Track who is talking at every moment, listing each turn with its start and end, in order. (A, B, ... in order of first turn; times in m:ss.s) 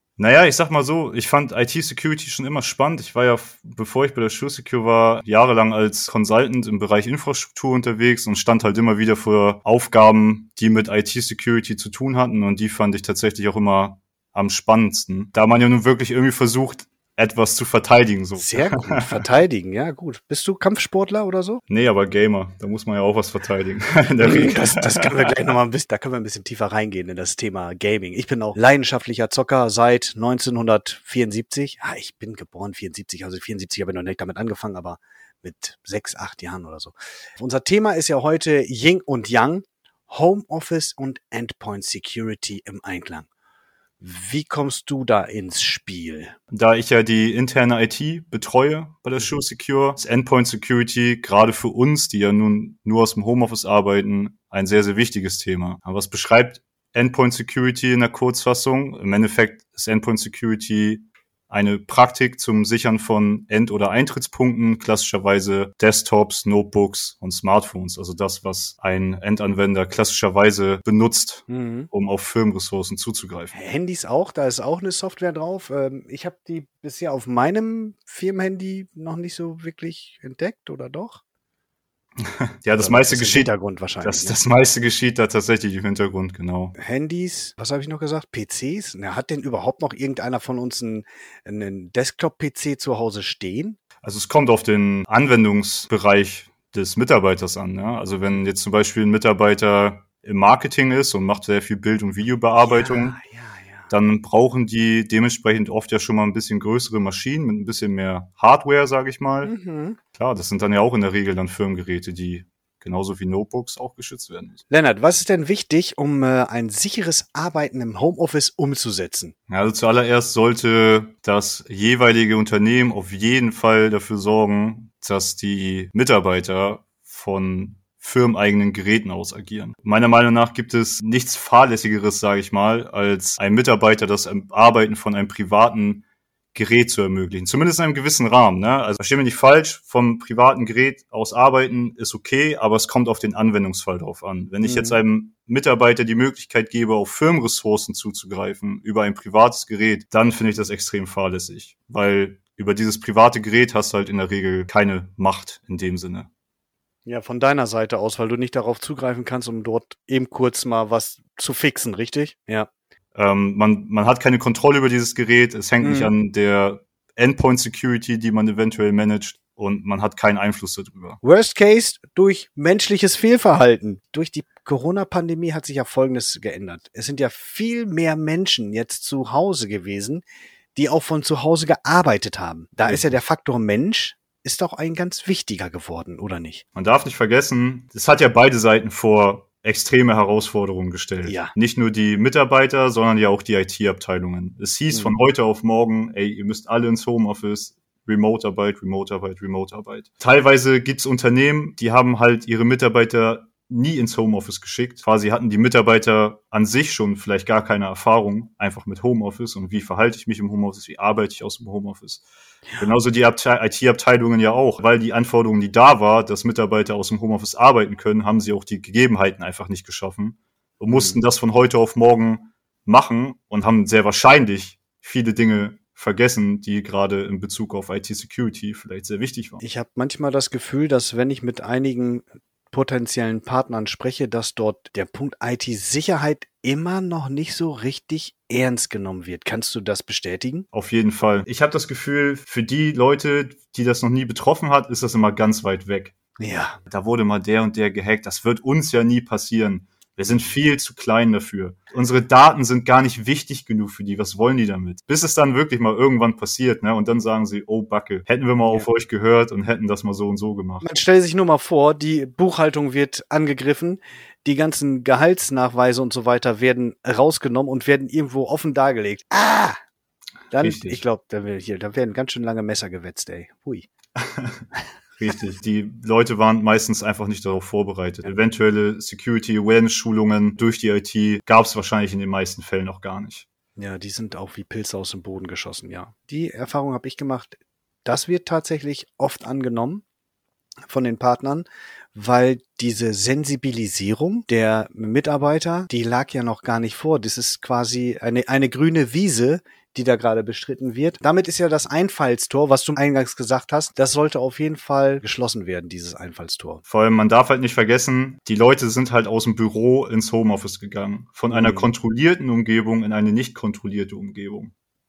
0:00.2-0:19.1 A
0:18.4-0:21.6 B
0:21.7-0:25.1 A
0:24.2-0:43.3 B
0:44.0-0:46.3 B
0:46.6-1:11.4 A
1:11.5-1:11.9 B
1:11.9-1:13.5 A
1:13.5-1:21.2 B
1:22.6-1:23.5 A
1:22.8-1:24.4 B
1:24.0-1:26.7 A
1:26.8-1:33.8 B
1:34.0-1:43.2 A
1:42.6-1:43.9 B
1:43.9-1:49.5 A
1:49.4-1:50.0 B
1:50.2-1:54.6 A
1:54.7-1:59.3 B
1:59.5-2:16.0 A
2:16.6-2:36.3 A
2:24.6-2:25.0 B
2:37.0-2:42.7 B
2:43.1-2:51.2 A
2:45.8-2:46.1 B
2:51.2-3:00.2 B
3:00.8-3:06.6 B
3:06.9-3:32.2 A
3:11.2-3:11.5 B
3:32.8-3:49.6 A
3:40.9-3:41.2 B
3:49.6-4:00.7 B
4:00.7-4:06.1 A
4:06.4-4:06.8 B
4:06.9-4:20.8 A
4:20.8-4:29.8 B
4:30.5-4:33.9 B
4:30.6-4:31.0 A
4:35.2-4:43.4 A
4:43.8-4:50.0 B
4:50.9-5:06.8 B
5:06.9-5:14.7 A
5:11.5-5:11.9 B